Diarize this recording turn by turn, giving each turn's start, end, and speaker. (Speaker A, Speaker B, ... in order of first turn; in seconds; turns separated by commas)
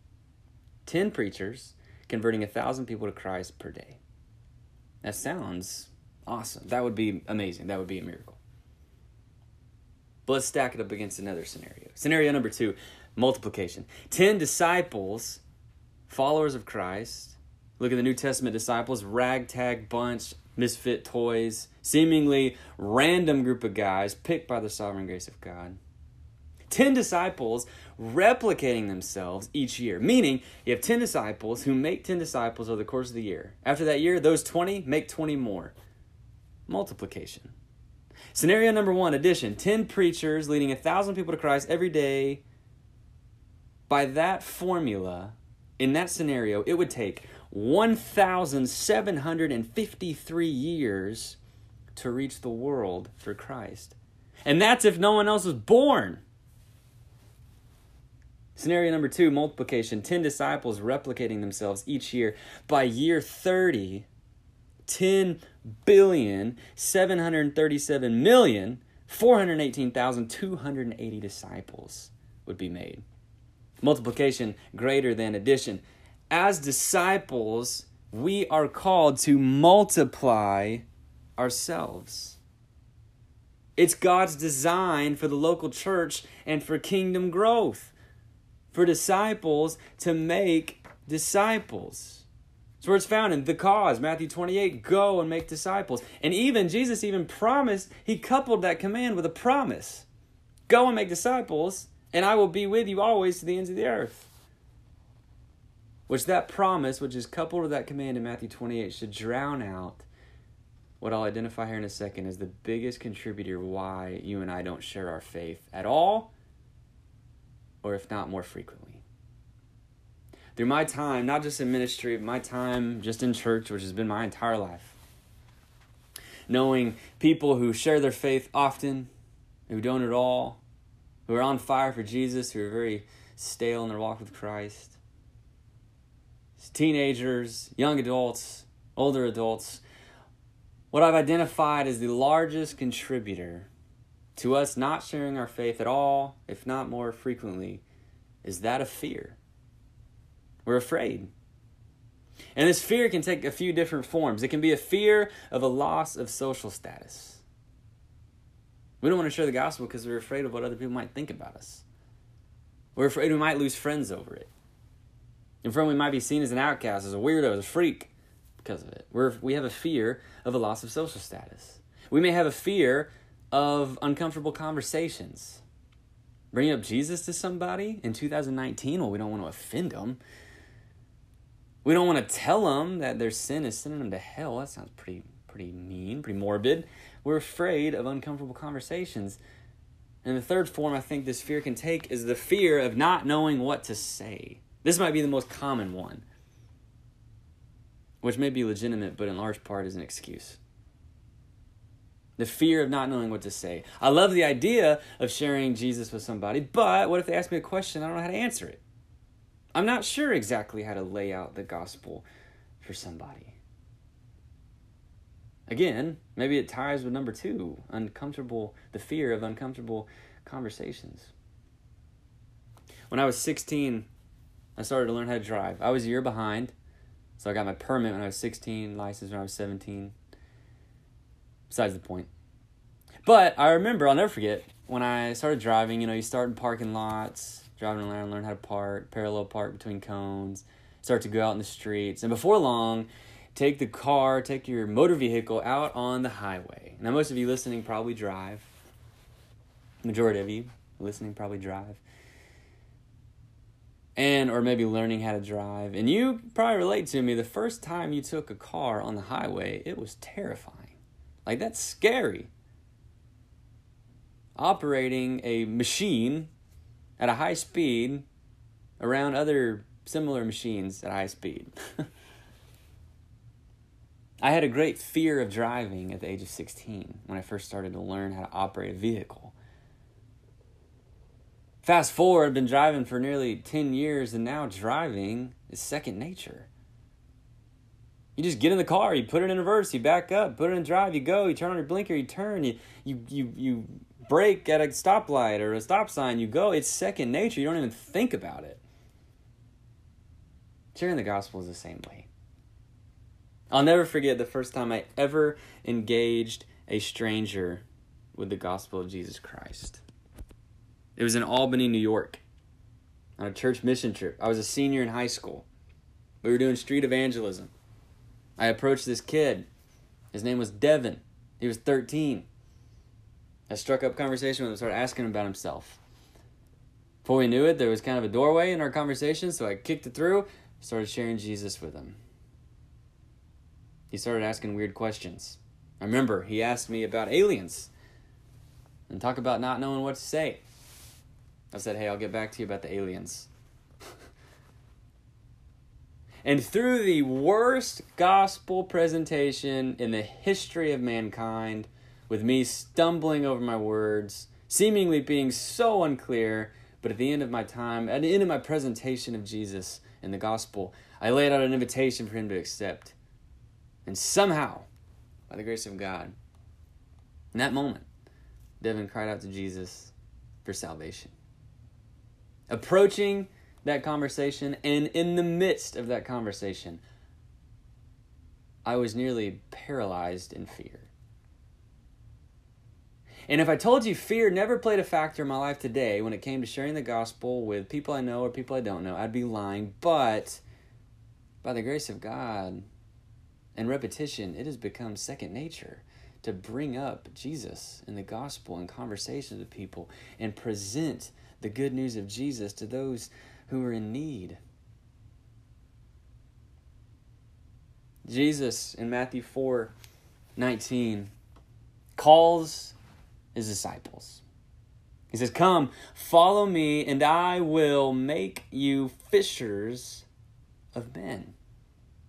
Speaker A: 0.9-4.0, Speaker A: 5.0-8.4, Speaker A: 10.3-15.4, Speaker A: 16.1-25.8, Speaker A: 26.7-35.8, Speaker A: 36.7-37.5, Speaker A: 38.3-42.4, Speaker A: 43.9-51.4, Speaker A: 52.0-56.2, Speaker A: 58.6-64.1, Speaker A: 64.9-73.0, Speaker A: 73.8-80.8, Speaker A: 81.4-82.4, Speaker A: 83.8-87.9, Speaker A: 88.7-92.3, Speaker A: 92.8-100.1, Speaker A: 100.7-104.3, Speaker A: 106.1-110.1, Speaker A: 111.0-116.3, Speaker A: 117.8-119.0, Speaker A: 120.5-125.0, Speaker A: 126.5-129.1, Speaker A: 129.7-130.6, Speaker A: 131.3-135.0, Speaker A: 136.6-139.8, Speaker A: 140.9-143.7, Speaker A: 144.4-147.8, Speaker A: 148.4-149.4, Speaker A: 150.7-151.3, Speaker A: 152.6-157.4, Speaker A: 159.0-161.8, Speaker A: 163.0-164.5, Speaker A: 165.6-175.6, Speaker A: 176.5-180.2, Speaker A: 181.8-189.4, Speaker A: 190.2-196.2, Speaker A: 198.2-200.6, Speaker A: 202.4-208.8, Speaker A: 209.7-212.3, Speaker A: 212.8-213.6, Speaker A: 215.7-221.3, Speaker A: 223.1-224.1, Speaker A: 224.8-226.7, Speaker A: 227.4-230.2, Speaker A: 231.7-232.3, Speaker A: 233.2-248.7, Speaker A: 250.0-252.0, Speaker A: 254.2-262.5, Speaker A: 264.6-266.5, Speaker A: 267.2-268.3, Speaker A: 269.0-271.7, Speaker A: 274.4-279.5, Speaker A: 281.8-286.7, Speaker A: 288.4-298.8, Speaker A: 300.9-302.3, Speaker A: 303.7-307.8, Speaker A: 308.4-310.0, Speaker A: 311.2-312.4, Speaker A: 313.4-315.7, Speaker A: 316.4-317.7, Speaker A: 318.6-319.7, Speaker A: 320.3-322.5, Speaker A: 323.7-326.0, Speaker A: 327.2-332.2, Speaker A: 334.1-337.9, Speaker A: 339.1-340.6, Speaker A: 341.7-343.5, Speaker A: 346.4-363.2, Speaker A: 364.1-364.9, Speaker A: 365.5-366.4, Speaker A: 367.5-368.1, Speaker A: 368.8-371.3, Speaker A: 372.7-377.0, Speaker A: 378.9-381.1, Speaker A: 383.5-390.6, Speaker A: 391.6-392.9, Speaker A: 393.8-404.6, Speaker A: 408.3-409.9, Speaker A: 410.6-411.3, Speaker A: 412.2-413.0, Speaker A: 413.6-414.4, Speaker A: 415.3-420.3, Speaker A: 420.9-421.6